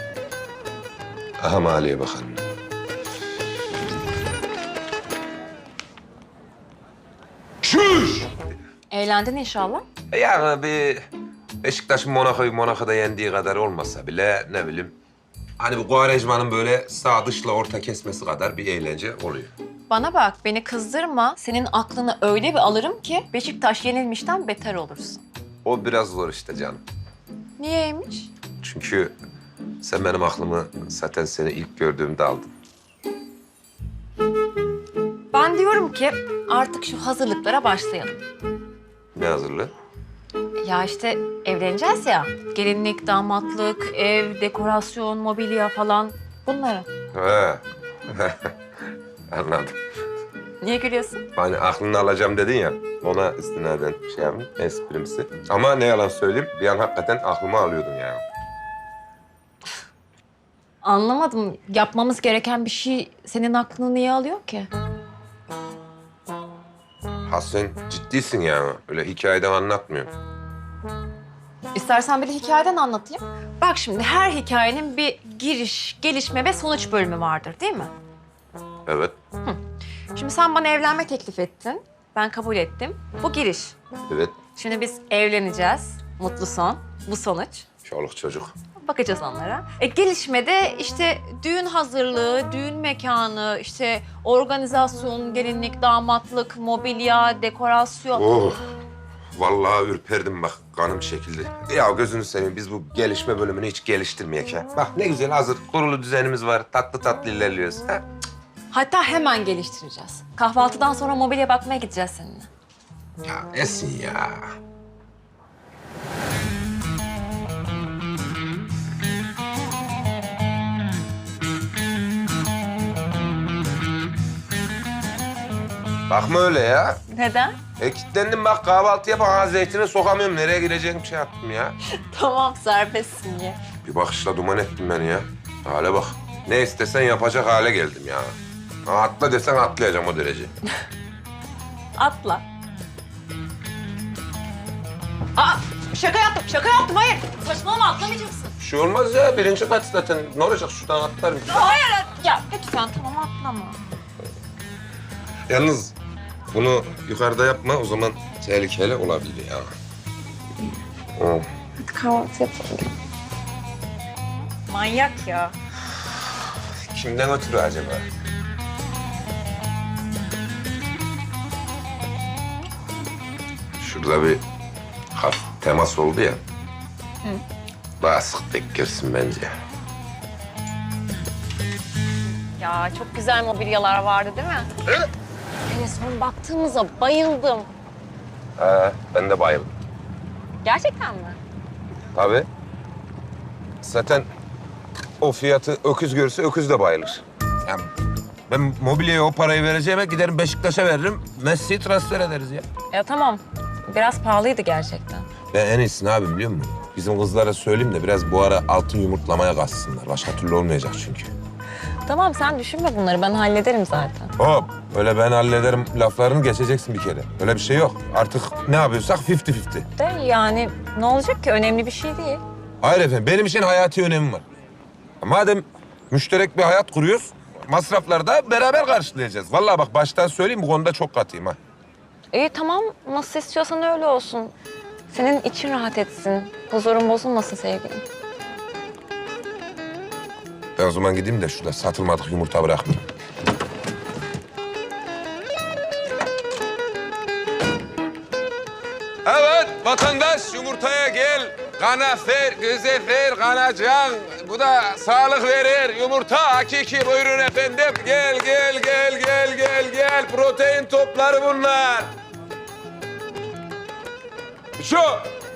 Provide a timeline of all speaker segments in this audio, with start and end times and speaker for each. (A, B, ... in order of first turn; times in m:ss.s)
0:01.4-0:02.4 A
0:07.6-0:08.3 A
0:08.9-0:09.8 B
0:10.1-0:11.0 A
0:11.6-0:15.0 A
0:15.6-0:19.5 A
0:19.9-0:25.2 B
0:25.6-0:26.8 A
0:27.6-0:28.3 B
0:28.6-0:29.2 A
0:29.8-0:32.5 A
0:35.3-0:38.2 B
0:39.2-0:39.7 A
0:40.6-0:46.9 B
0:47.1-0:48.5 A
0:49.3-0:49.8 A
0:50.6-0:51.2 B
0:51.4-0:58.2 A
1:00.8-1:04.7 B
1:07.3-1:10.1 A
1:11.7-1:17.9 B
1:18.9-1:19.2 A
1:20.1-1:23.8 B
1:24.1-1:24.4 A
1:24.6-1:27.6 B
1:27.8-1:28.5 A
1:28.8-1:38.4 B
1:38.2-1:38.6 A
1:39.4-1:48.0 A
1:48.7-1:52.5 B
1:53.2-1:54.4 A
2:06.1-2:07.0 A
2:07.1-2:07.6 B
2:07.8-2:11.8 A
2:12.1-2:13.6 B
2:13.8-2:18.4 A
2:18.9-2:20.5 A
2:22.0-2:22.4 B
2:25.4-2:28.5 B
2:28.6-2:31.7 A
2:31.5-2:33.8 B
2:35.5-2:36.0 A
2:36.5-2:39.7 A
2:41.2-2:41.5 A
2:41.8-2:42.9 B
2:44.7-2:45.5 B
2:46.9-2:48.0 A
2:53.8-2:54.4 A
2:55.1-2:56.4 A
2:58.0-2:59.5 A
3:02.6-3:04.7 B
3:05.7-3:07.7 B
3:08.6-3:09.7 A
3:10.6-3:11.4 B
3:12.2-3:12.5 A
3:13.8-3:14.3 A
3:15.2-3:17.9 A
3:18.5-3:22.7 A
3:22.9-3:25.3 B
3:25.5-3:31.3 A
3:32.1-3:34.3 B
3:34.4-3:39.9 A
3:40.0-3:42.4 B
3:42.8-3:44.4 A
3:45.2-3:51.6 A
3:52.3-3:54.5 B
3:55.1-3:58.0 B
4:00.8-4:03.0 A
4:09.3-4:22.1 A
4:24.8-4:25.3 A